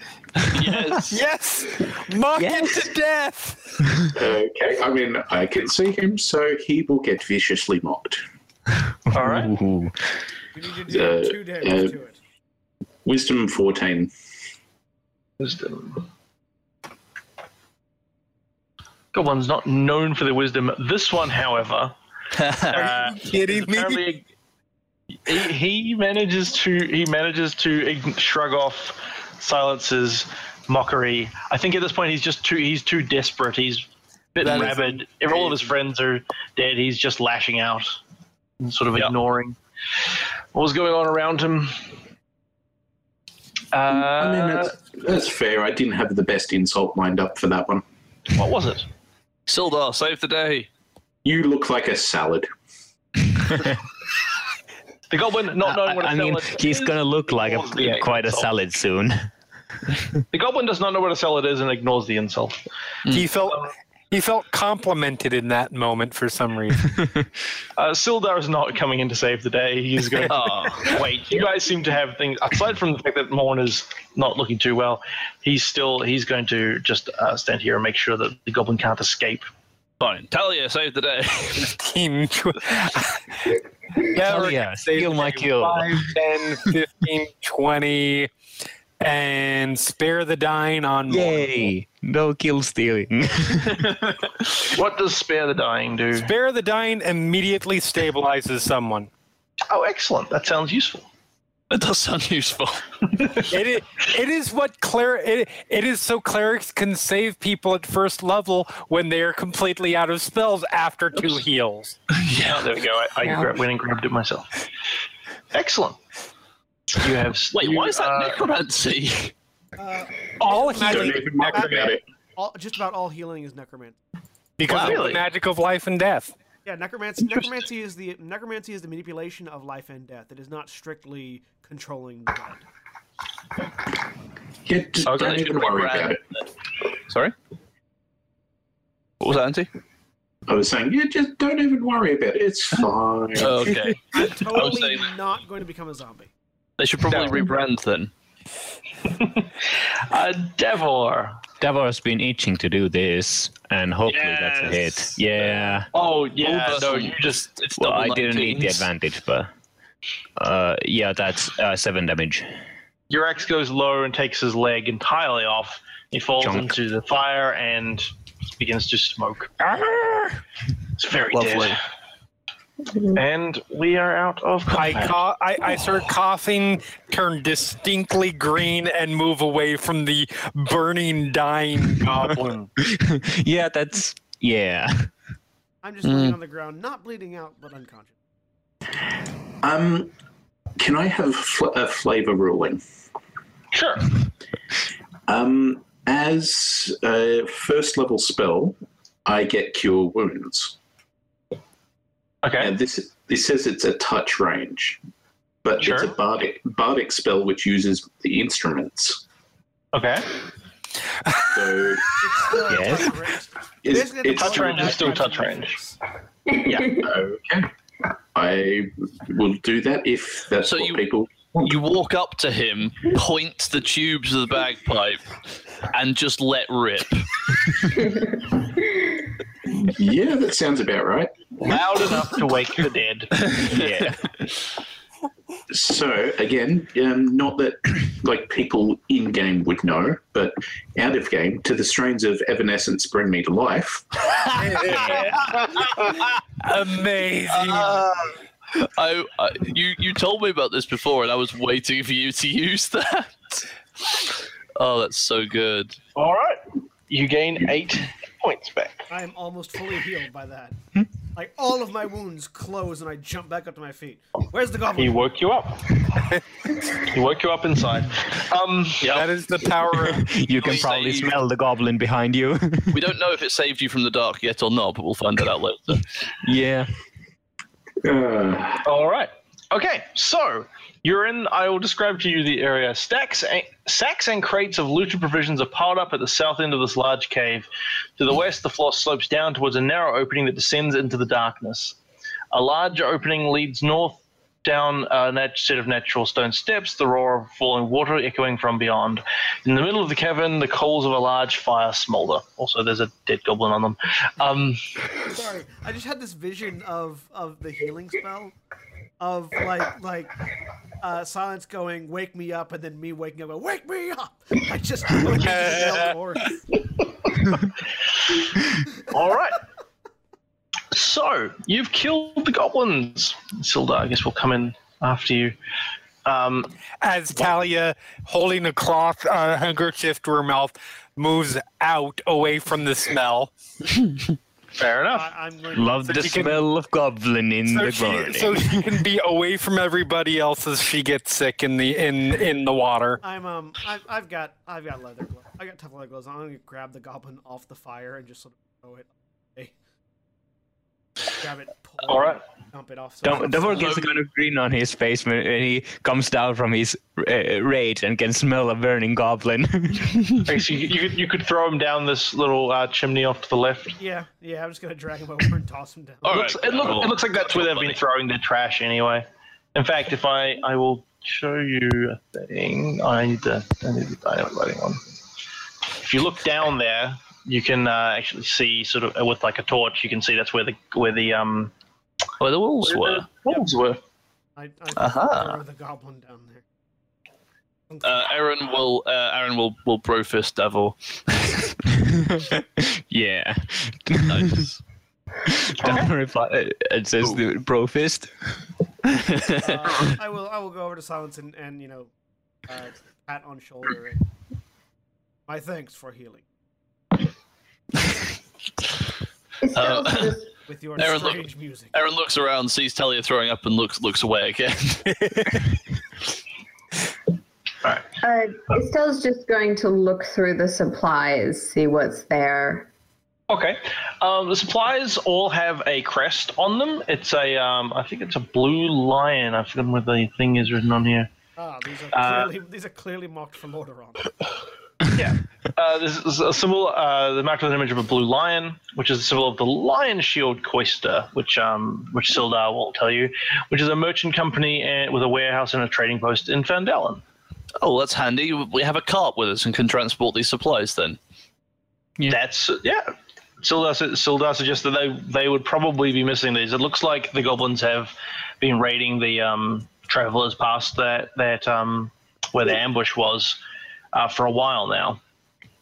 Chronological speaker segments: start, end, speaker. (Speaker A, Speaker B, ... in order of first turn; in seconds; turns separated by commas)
Speaker A: 0.5-1.2, Speaker B: 1.1-3.9, Speaker C: 2.4-2.9, Speaker D: 4.1-8.2, Speaker E: 9.1-9.5, Speaker C: 9.2-10.0, Speaker F: 10.5-12.2, Speaker D: 10.9-11.9, Speaker D: 13.1-14.1, Speaker E: 15.4-16.0, Speaker E: 19.1-22.0, Speaker A: 22.4-22.8, Speaker E: 22.7-24.2, Speaker B: 22.7-24.0, Speaker E: 25.2-38.0, Speaker B: 34.4-35.0, Speaker E: 38.6-39.6, Speaker E: 40.5-41.8, Speaker E: 43.7-44.7, Speaker D: 43.9-47.8, Speaker E: 48.3-48.9, Speaker A: 49.5-50.7, Speaker D: 51.2-52.5, Speaker E: 55.1-58.5, Speaker C: 55.6-59.3, Speaker E: 60.3-62.6, Speaker B: 63.1-67.0, Speaker E: 67.8-79.5, Speaker A: 70.2-71.0, Speaker A: 80.0-81.8, Speaker B: 81.6-83.2, Speaker B: 84.0-88.3, Speaker C: 84.2-86.1, Speaker B: 89.0-91.7, Speaker C: 91.1-94.3, Speaker E: 94.7-96.3, Speaker B: 96.1-99.1, Speaker E: 99.7-101.1, Speaker A: 101.7-102.8, Speaker E: 103.2-103.5, Speaker B: 103.5-112.0, Speaker A: 112.1-112.7, Speaker E: 112.5-114.6, Speaker E: 115.5-116.0, Speaker E: 116.9-118.4, Speaker A: 117.5-119.3, Speaker F: 119.8-124.0, Speaker B: 120.4-121.5, Speaker D: 120.8-122.0, Speaker B: 124.6-126.3, Speaker A: 124.7-125.1, Speaker E: 124.7-125.2, Speaker F: 126.7-132.6, Speaker D: 134.7-136.2, Speaker A: 135.1-136.4, Speaker E: 135.1-135.4, Speaker A: 137.1-137.3, Speaker A: 139.2-139.7, Speaker D: 140.5-143.6, Speaker A: 143.4-145.1, Speaker F: 144.2-146.3, Speaker A: 146.8-148.1, Speaker E: 147.1-147.4, Speaker E: 149.1-149.5, Speaker E: 150.1-151.4, Speaker C: 151.6-155.9, Speaker A: 154.1-154.8, Speaker E: 154.2-154.7, Speaker E: 155.9-157.5, Speaker A: 156.4-158.9, Speaker C: 157.8-159.5, Speaker C: 160.4-162.5, Speaker E: 163.1-169.6, Speaker C: 166.4-166.8, Speaker E: 171.0-171.8, Speaker A: 171.3-171.8, Speaker G: 172.9-173.2, Speaker E: 173.1-175.2, Speaker B: 174.7-182.4, Speaker E: 182.2-182.7, Speaker C: 182.8-185.1, Speaker F: 185.8-188.2, Speaker A: 186.1-186.4, Speaker D: 189.6-190.1, Speaker D: 190.8-192.8, Speaker E: 193.7-194.1, Speaker D: 195.3-200.8, Speaker E: 202.4-202.7, Speaker D: 202.6-205.0, Speaker D: 205.6-209.2, Speaker E: 205.8-206.1, Speaker E: 209.9-210.3, Speaker B: 211.3-211.8, Speaker D: 211.4-212.1, Speaker F: 212.2-216.0, Speaker C: 212.7-213.2, Speaker D: 213.8-215.2, Speaker E: 214.4-215.8, Speaker E: 216.7-216.9, Speaker D: 216.8-217.7, Speaker D: 218.3-221.7, Speaker A: 220.6-221.1, Speaker A: 221.6-225.2, Speaker A: 225.9-227.3, Speaker D: 229.8-231.5, Speaker E: 231.6-233.3, Speaker A: 233.5-234.1, Speaker C: 233.6-234.3, Speaker D: 235.7-244.2, Speaker B: 244.6-248.1, Speaker A: 247.5-253.4, Speaker A: 254.8-256.0, Speaker E: 256.2-259.1, Speaker F: 259.1-260.8, Speaker F: 261.3-265.3, Speaker E: 265.0-266.2, Speaker E: 266.9-269.2, Speaker B: 269.1-270.3, Speaker C: 270.0-273.1, Speaker A: 270.6-271.4, Speaker A: 272.9-276.1, Speaker C: 276.4-276.9, Speaker D: 278.0-278.9, Speaker E: 278.9-292.0, Speaker E: 292.5-304.8, Speaker F: 305.3-308.6, Speaker F: 309.2-310.4, Speaker F: 311.0-316.6, Speaker B: 315.3-316.1, Speaker E: 319.0-319.6, Speaker E: 320.9-325.6, Speaker E: 326.2-326.7, Speaker B: 327.0-333.5, Speaker E: 334.8-335.3, Speaker F: 335.1-336.5, Speaker C: 335.7-338.8, Speaker B: 336.1-336.6, Speaker B: 337.7-343.2, Speaker F: 343.2-349.7, Speaker F: 351.4-354.0, Speaker E: 352.1-352.4, Speaker C: 353.2-360.5, Speaker A: 353.8-354.1, Speaker E: 360.5-364.0, Speaker F: 364.0-366.9, Speaker E: 366.2-375.0, Speaker A: 366.3-368.0, Speaker E: 376.0-381.7, Speaker A: 382.4-383.3, Speaker E: 382.9-384.0, Speaker F: 384.6-386.6, Speaker A: 385.0-385.6, Speaker F: 387.9-388.2, Speaker A: 388.0-391.5, Speaker C: 391.9-394.7, Speaker A: 394.3-394.8, Speaker C: 395.5-398.4, Speaker E: 395.8-396.1, Speaker C: 399.1-400.1, Speaker F: 399.6-402.1, Speaker F: 402.7-404.2, Speaker F: 405.5-406.5, Speaker G: 409.6-410.5, Speaker A: 409.7-410.4, Speaker F: 410.7-412.1, Speaker A: 411.0-411.4, Speaker A: 411.9-415.3, Speaker G: 418.2-422.9, Speaker E: 423.5-431.3, Speaker F: 431.6-434.4, Speaker E: 432.1-432.5, Speaker E: 435.1-447.2, Speaker A: 447.8-451.2, Speaker E: 452.3-463.6, Speaker E: 464.1-465.2